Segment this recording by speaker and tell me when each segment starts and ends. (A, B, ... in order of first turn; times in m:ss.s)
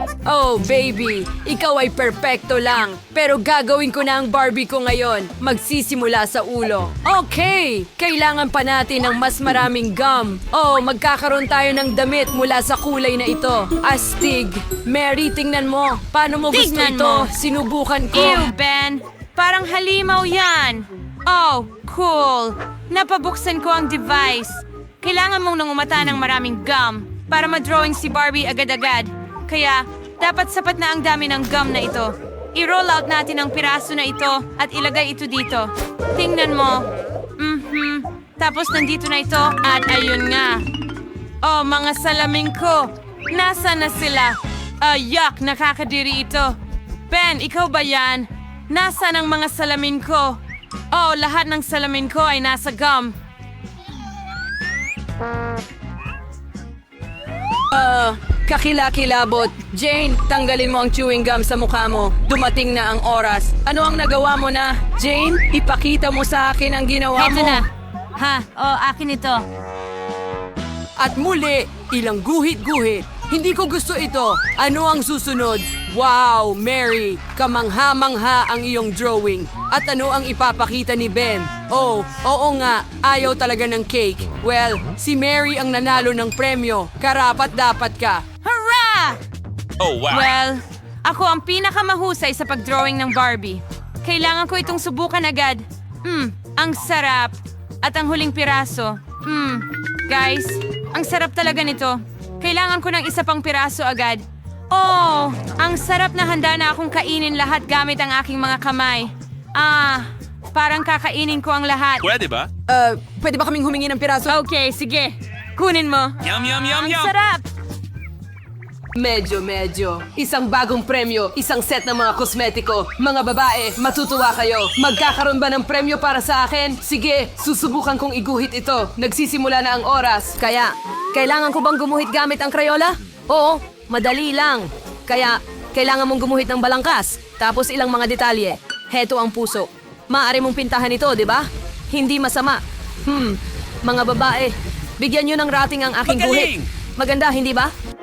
0:00.2-0:18.5 A
0:16.5-0:17.3 B
0:18.1-0:36.9 B
0:37.4-0:40.6 B
0:41.4-0:46.6 B
0:47.1-0:50.4 B
0:50.9-0:53.1 B
0:57.7-1:07.6 A
1:07.1-1:07.6 B
1:08.2-1:09.4 B
1:11.0-1:28.2 A
1:28.4-1:29.2 B
1:29.8-1:30.3 C
1:30.1-1:52.1 B
1:52.0-1:52.5 C
1:52.7-1:54.4 A
1:54.3-1:57.4 B
1:56.2-1:57.1 C
1:58.9-2:27.7 A
2:26.0-2:26.6 C